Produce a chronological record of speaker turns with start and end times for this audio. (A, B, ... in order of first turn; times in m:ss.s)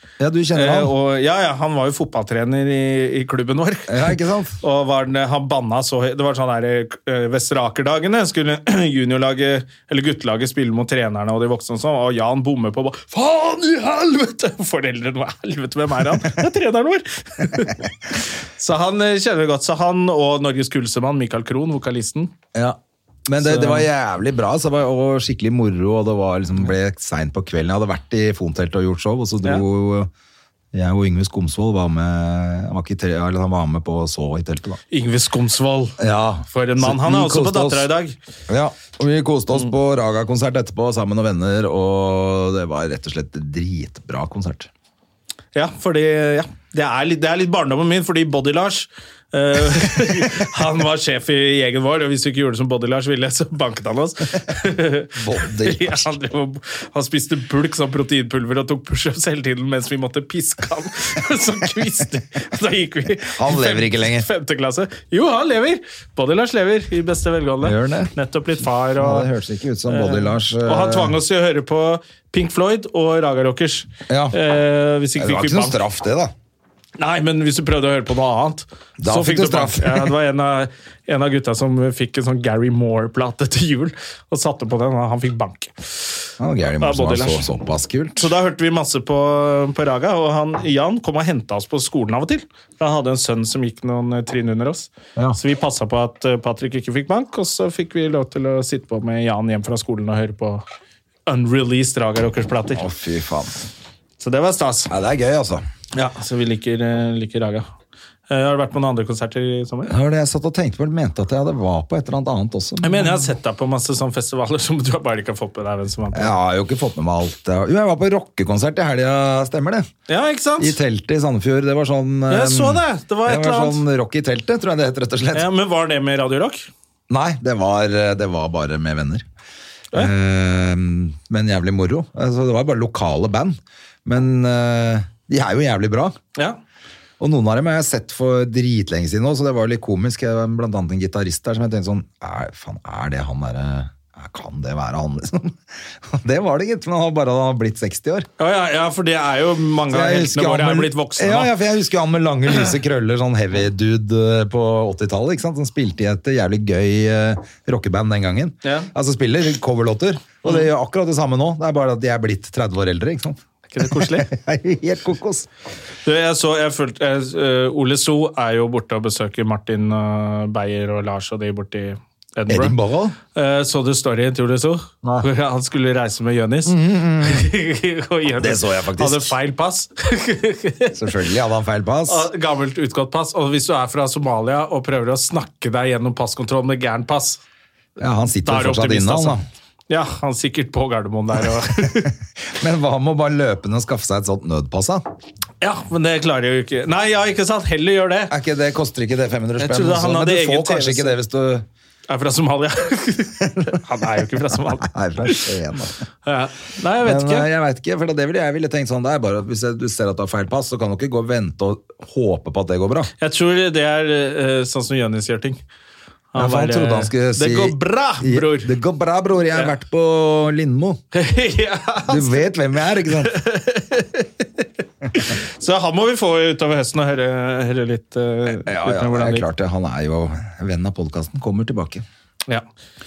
0:00.2-0:00.9 A
0:00.5-0:17.8 B
0:03.9-0:04.6 A
0:18.6-0:22.3 B
0:22.5-0:30.1 A
0:23.4-0:23.9 B
0:30.7-0:34.8 A
0:34.9-0:38.2 B
0:36.0-0:37.9 A
0:38.5-0:44.7 A
0:45.5-1:09.3 B
0:55.2-0:56.1 A
1:03.3-1:04.3 A
1:07.6-1:08.1 A
1:09.0-1:11.1 A
1:09.9-1:15.8 B
1:14.1-1:14.4 A
1:15.2-1:16.3 A
1:17.0-1:26.2 B
1:19.0-1:20.2 A
1:26.4-1:28.3 A
1:26.8-1:27.4 B
1:28.2-1:40.6 B
1:41.3-1:42.9 B
1:42.8-1:43.6 A
1:44.2-1:44.9 B
1:44.9-1:45.6 A
1:45.9-1:47.7 B
1:48.3-1:49.9 B
1:49.9-1:53.2 A
1:52.8-1:56.3 B
1:56.1-1:59.9 A
2:00.1-2:00.8 B
2:00.6-2:05.5 A
2:02.3-2:03.8 B
2:05.3-2:06.7 B
2:07.1-2:09.2 A
2:09.9-2:16.2 A
2:17.2-2:28.3 A
2:28.4-2:31.5 B
2:29.9-2:45.5 A
2:38.6-2:38.9 B
2:43.7-2:44.3 B
2:46.0-2:52.7 B
2:52.5-2:53.2 A
2:53.3-3:01.1 B
2:55.0-2:55.3 A
2:56.6-2:57.5 A
2:58.4-2:59.3 A
3:00.9-3:02.3 A
3:02.1-3:07.4 B
3:08.0-3:09.4 A
3:08.4-3:12.1 B
3:12.5-3:15.0 A
3:15.6-3:18.3 B
3:18.3-3:21.7 A
3:19.6-3:21.2 B
3:22.1-3:25.4 B
3:24.2-3:26.0 A
3:26.2-3:27.4 B
3:27.0-3:33.1 A
3:33.2-3:35.6 B
3:36.3-3:38.7 B
3:36.4-3:41.0 A
3:41.1-3:42.4 B
3:42.1-3:43.4 A
3:43.0-3:49.5 B
3:48.5-3:52.0 A